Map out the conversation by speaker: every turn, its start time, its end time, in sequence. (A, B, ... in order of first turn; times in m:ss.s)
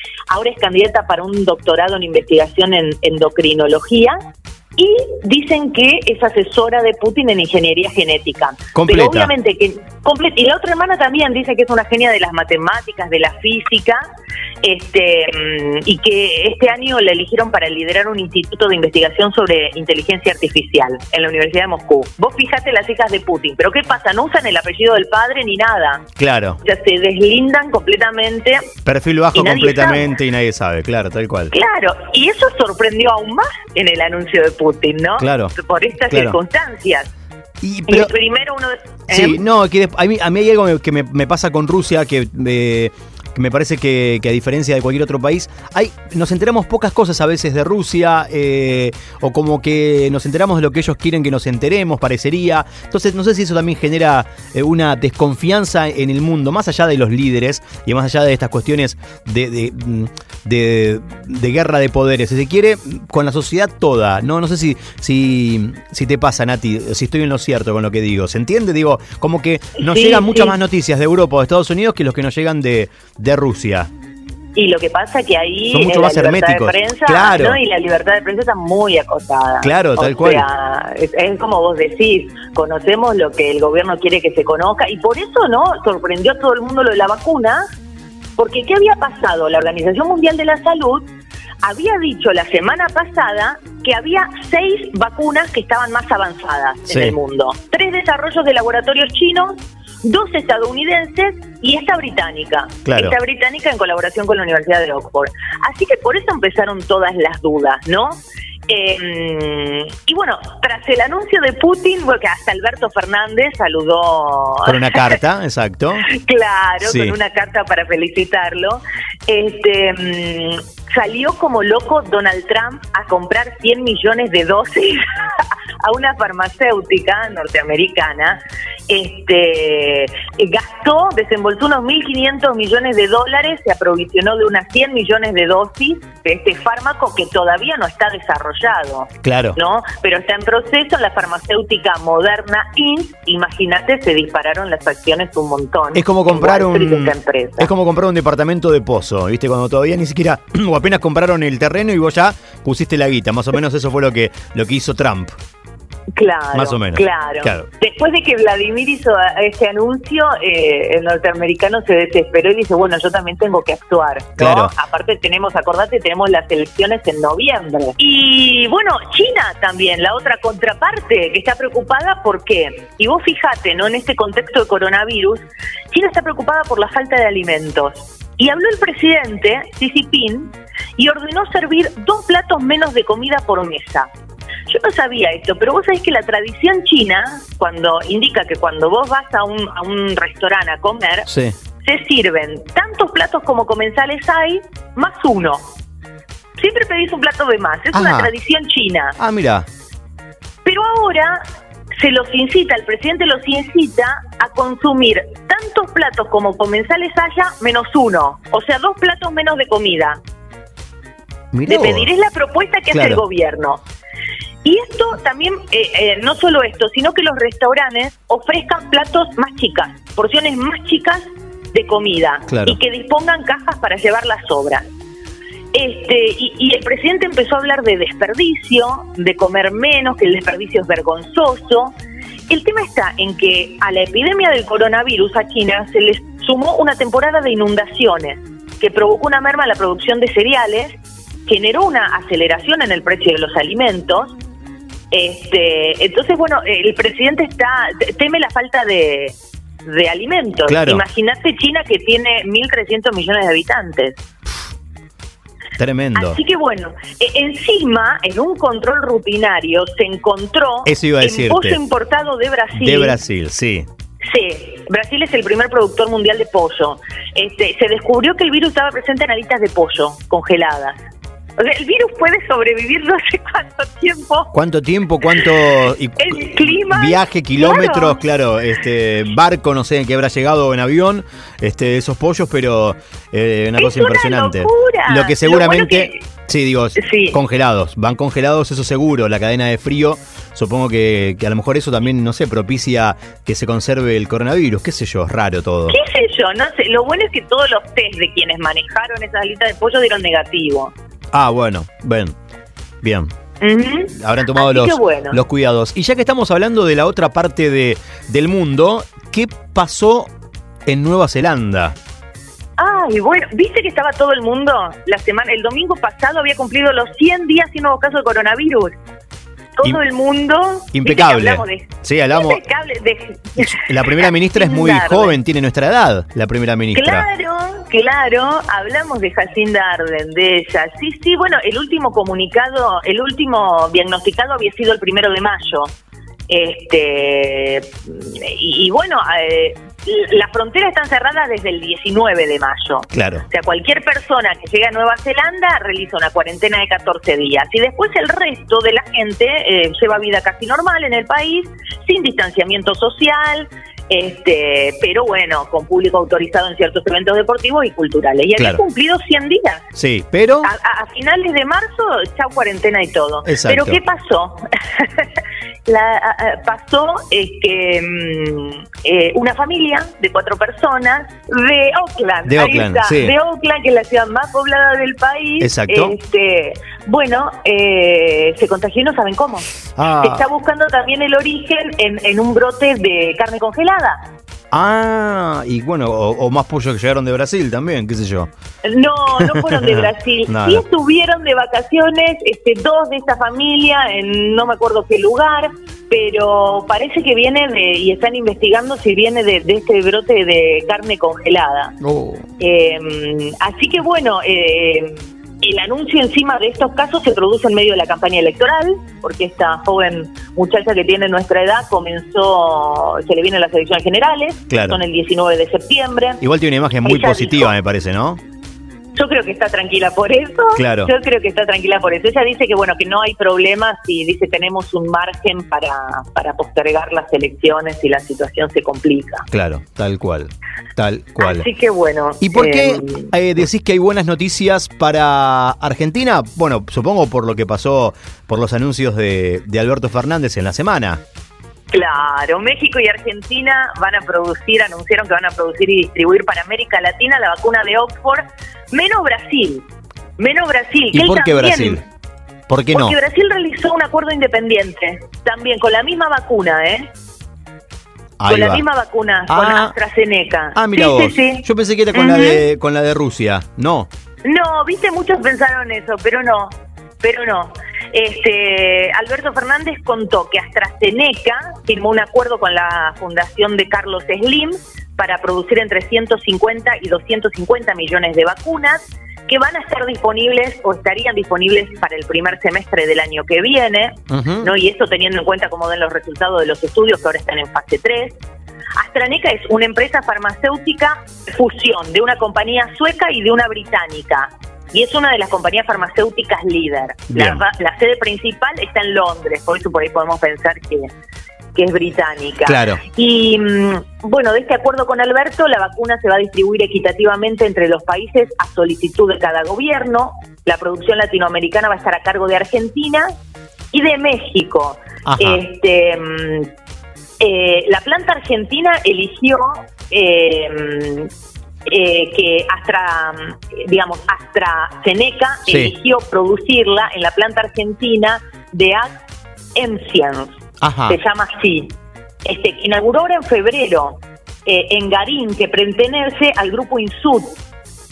0:00.3-0:04.2 A
0:04.8-0:14.0 A
0:08.7-0:09.3 B
0:14.6-0:26.0 A
0:26.2-0:26.6 B
0:26.6-0:28.7 A
0:28.8-0:31.5 B
0:29.3-0:30.1 A
0:31.5-0:37.1 A
0:35.2-0:35.5 B
0:36.1-0:36.4 B
0:37.6-0:38.1 B
0:37.9-0:39.4 A
0:39.1-1:13.9 B
1:09.8-1:10.6 A
1:14.5-1:27.6 A
1:15.7-1:17.6 B
1:19.6-1:20.4 B
1:28.4-1:31.1 A
1:31.6-1:55.2 A
1:36.9-1:37.2 B
1:42.8-1:43.2 B
1:54.6-1:56.0 B
1:56.0-2:27.7 A
1:56.8-1:57.2 B
2:19.2-2:19.6 B
2:25.9-2:35.4 B
2:36.2-3:04.1 A
2:36.5-2:37.7 B
2:44.4-2:44.7 B
3:04.7-3:11.3 A
3:11.2-3:11.5 B
3:11.8-3:15.7 A
3:16.6-3:19.2 A
3:17.9-3:18.3 B
3:19.2-3:19.6 B
3:20.6-3:21.4 A
3:22.0-3:30.2 A
3:31.5-3:32.1 B
3:31.6-3:33.8 A
3:32.9-3:33.2 B
3:34.6-3:44.9 A
3:42.5-3:42.8 B
3:45.7-3:51.9 A
3:52.5-4:04.4 A
4:05.1-4:14.2 A
4:10.7-4:11.0 B
4:15.8-4:16.4 B
4:16.1-4:23.2 A
4:20.8-4:21.8 B
4:22.7-4:23.9 B
4:24.3-4:31.0 A
4:31.6-4:34.5 A
4:34.5-4:56.0 B
4:36.2-4:38.2 A
4:43.8-4:46.2 A
4:47.0-4:47.4 A
4:55.9-5:00.9 A
5:01.3-5:02.3 B
5:03.0-5:03.3 B
5:03.6-5:05.4 A
5:04.1-5:10.3 B
5:10.9-5:12.0 B
5:12.8-5:18.9 A
5:19.8-5:25.4 A
5:20.9-5:22.6 B
5:23.6-5:27.3 B
5:26.9-5:35.9 A
5:36.5-5:59.8 A
5:43.1-5:43.4 B
5:58.6-5:58.8 B
6:00.0-6:00.7 B
6:00.6-6:05.3 A
6:03.4-6:04.0 B
6:05.8-6:24.2 A
6:12.4-6:13.4 B
6:15.6-6:16.2 B
6:20.0-6:20.5 B
6:24.7-6:28.5 B
6:28.8-6:42.0 A
6:29.4-6:30.8 B
6:42.0-6:42.4 B
6:42.6-6:56.4 A
6:54.7-6:55.0 B
6:56.4-6:58.4 B
6:57.0-6:57.8 A
6:59.1-7:09.4 A
7:00.8-7:01.1 B
7:09.5-7:11.7 B
7:11.4-7:13.3 A
7:12.4-7:21.2 B
7:21.9-7:29.8 A
7:30.4-7:32.0 A
7:31.1-7:32.0 B
7:32.7-7:33.2 B
7:32.9-7:37.1 A
7:38.4-7:38.8 B
7:38.4-7:42.6 A
7:39.5-7:39.9 B
7:40.7-7:44.1 B
7:44.4-8:08.4 A
8:04.3-8:04.7 B
8:09.0-8:21.1 A
8:17.3-8:17.6 B
8:21.7-8:33.3 A
8:22.6-8:23.0 B
8:33.9-8:36.7 A
8:35.2-8:35.6 B
8:37.4-8:41.3 A
8:41.8-8:49.1 A
8:45.7-8:45.9 B
8:49.7-8:57.6 A
8:50.8-8:51.2 B